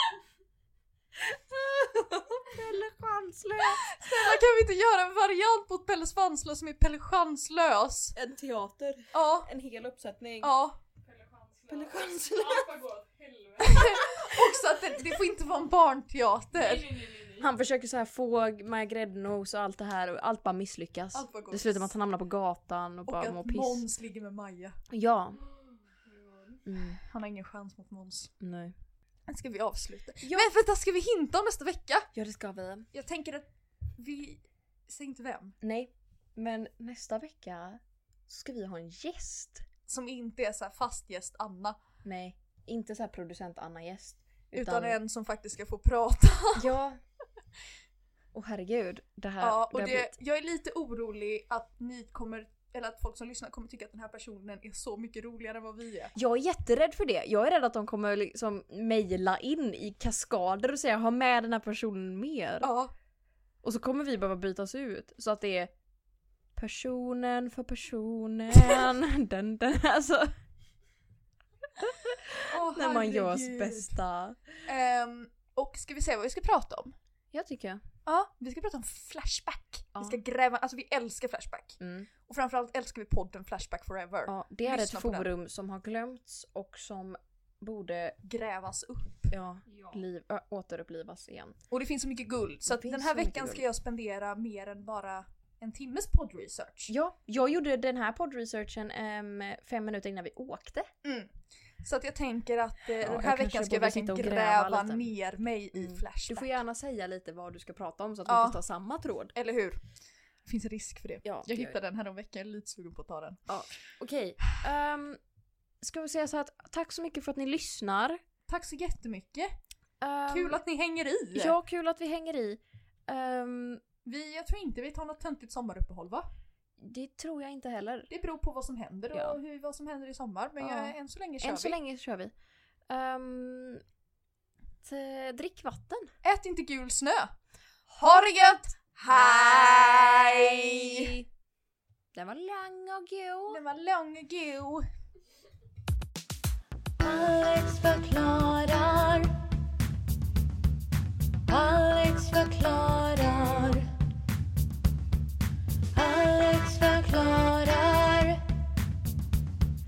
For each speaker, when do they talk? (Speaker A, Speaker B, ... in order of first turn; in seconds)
Speaker A: 1.3-3.9, 8.2-10.5, 11.7-12.7, 17.4-23.8, 24.9-25.4, 26.7-27.0, 28.4-28.7, 30.2-30.5, 32.1-32.9, 35.6-39.6, 42.0-45.0, 46.5-47.0, 48.3-50.1, 56.1-62.7, 63.6-65.7, 66.6-70.3, 71.8-74.4, 77.3-77.8, 81.8-82.1, 84.3-88.2, 89.3-91.6, 92.7-93.7, 96.9-100.9, 103.0-105.1, 105.7-109.3, 111.2-111.8, 113.5-115.2, 115.8-118.2, 120.0-120.6, 121.3-123.8, 126.8-128.1, 129.1-129.4, 130.6-132.3, 132.9-133.8, 134.8-136.1, 137.9-138.2, 139.3-139.6, 140.8-141.2, 142.2-143.6
Speaker B: 3.7-8.2, 9.1-9.5, 10.4-10.8, 13.6-16.9, 21.1-21.9, 23.1-24.8, 27.1-28.3, 29.3-32.1, 32.9-35.5, 39.9-41.8, 44.5-46.7, 49.4-56.1, 62.6-62.9, 72.5-74.0, 74.7-77.0, 78.1-85.3, 88.2-89.3, 91.7-96.9, 101.0-106.6, 108.3-108.6, 109.3-109.8, 110.5-113.4, 118.5-119.5, 120.3-121.6, 124.0-126.3, 128.1-131.8, 136.2-137.3, 138.0-141.2, 143.5-144.8
Speaker C: 11.0-14.0, 16.6-17.5, 25.9-26.6, 89.7-90.0
Speaker D: 147.0-149.3, 151.5-153.9, 155.9-158.4